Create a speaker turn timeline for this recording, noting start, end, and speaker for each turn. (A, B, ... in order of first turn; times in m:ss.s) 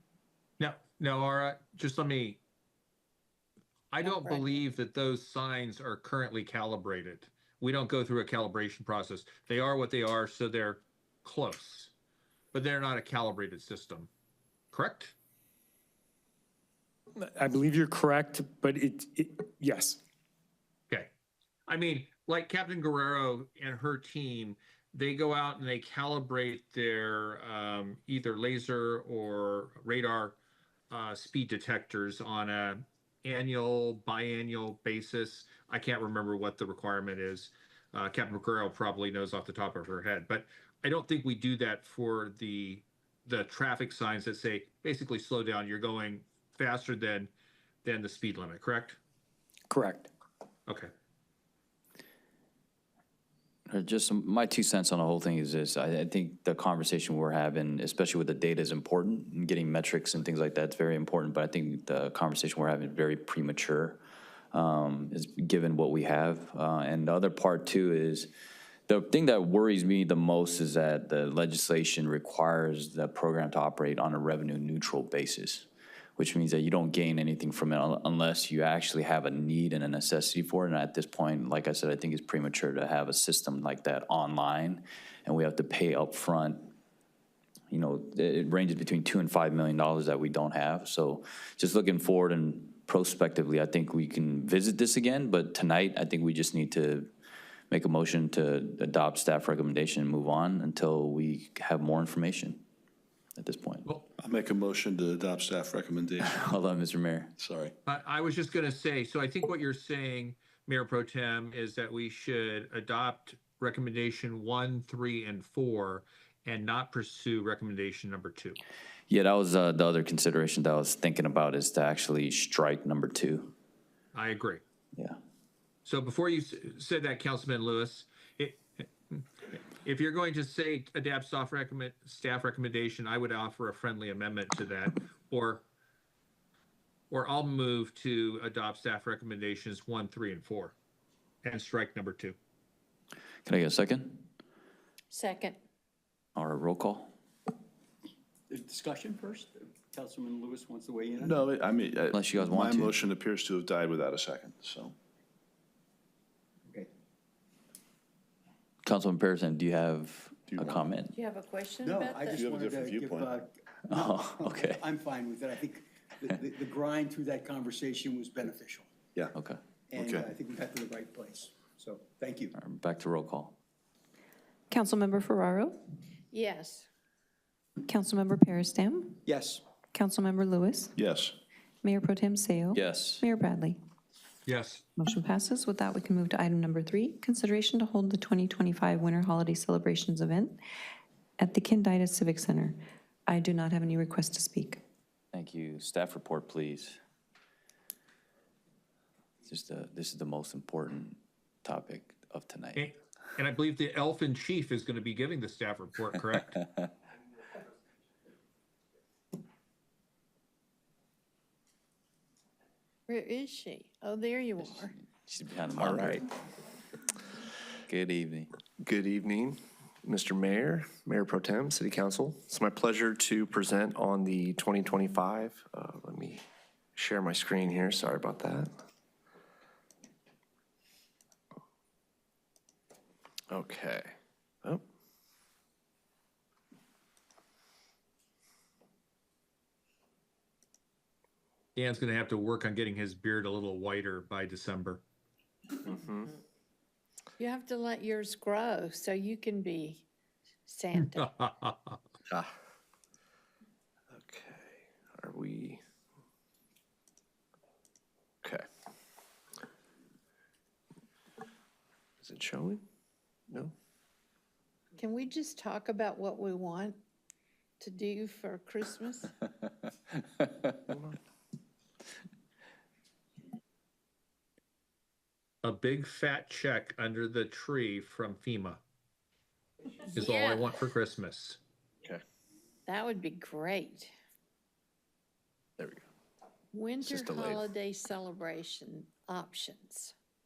0:00.6-0:02.4 A
0:03.9-0:11.9 A
0:04.0-0:04.5 B
0:12.5-0:14.1 A
0:14.7-0:15.1 A
0:17.2-0:20.0 C
0:21.7-0:30.4 A
0:30.9-0:47.3 A
0:47.8-0:49.0 A
0:49.7-0:50.1 C
0:53.7-1:04.0 D
1:04.5-1:08.3 D
1:08.9-1:26.7 D
1:27.7-1:37.1 D
1:37.7-1:42.6 D
1:43.4-1:43.8 D
1:44.2-1:46.4 E
1:46.2-1:47.3 D
1:47.4-1:47.7 E
1:47.8-1:58.6 A
1:59.1-2:03.5 D
2:04.1-2:04.6 A
2:05.8-2:15.6 A
2:17.1-2:20.7 A
2:21.4-2:22.4 A
2:23.4-2:24.3 D
2:25.1-2:25.6 B
2:26.4-2:27.1 D
2:28.5-2:31.4 F
2:31.2-2:34.9 E
2:32.1-2:33.0 D
2:38.8-2:41.1 D
2:40.5-2:40.8 E
2:41.1-2:42.4 B
2:41.8-2:48.9 F
2:42.3-2:43.4 E
2:43.9-2:44.8 D
2:49.3-2:49.6 D
2:49.9-2:52.6 F
2:49.9-2:50.3 E
2:52.5-2:53.6 D
2:54.7-2:55.8 G
2:56.3-2:56.9 B
2:57.9-2:59.2 G
2:59.2-2:59.6 F
2:59.9-3:00.9 G
3:01.0-3:01.3 E
3:01.8-3:03.8 G
3:02.7-3:03.3 D
3:04.5-3:04.8 A
3:05.0-3:10.6 G
3:11.4-3:14.8 G
3:15.3-3:17.0 D
3:19.4-3:22.9 D
3:22.8-3:26.5 A
3:33.1-3:34.9 B
3:34.6-3:36.2 D
3:35.7-3:36.2 H
3:37.9-3:38.5 D
3:38.8-3:46.4 H
3:47.0-3:48.7 H
3:53.5-3:54.8 H
4:01.8-4:05.0 A
4:05.8-4:06.3 H
4:07.4-4:10.0 B
4:10.7-4:11.3 B
4:11.0-4:12.0 A
4:12.3-4:12.5 H
4:14.1-4:15.8 H
4:22.2-4:22.8 H
4:25.0-4:27.0 B
4:27.8-4:29.3 B
4:30.7-4:31.2 H
4:35.6-4:38.8 A
4:40.1-4:40.7 B
4:40.2-4:41.6 A
4:42.9-4:44.1 B
4:45.8-4:46.0 H
4:46.7-4:50.1 B
4:47.0-4:47.7 H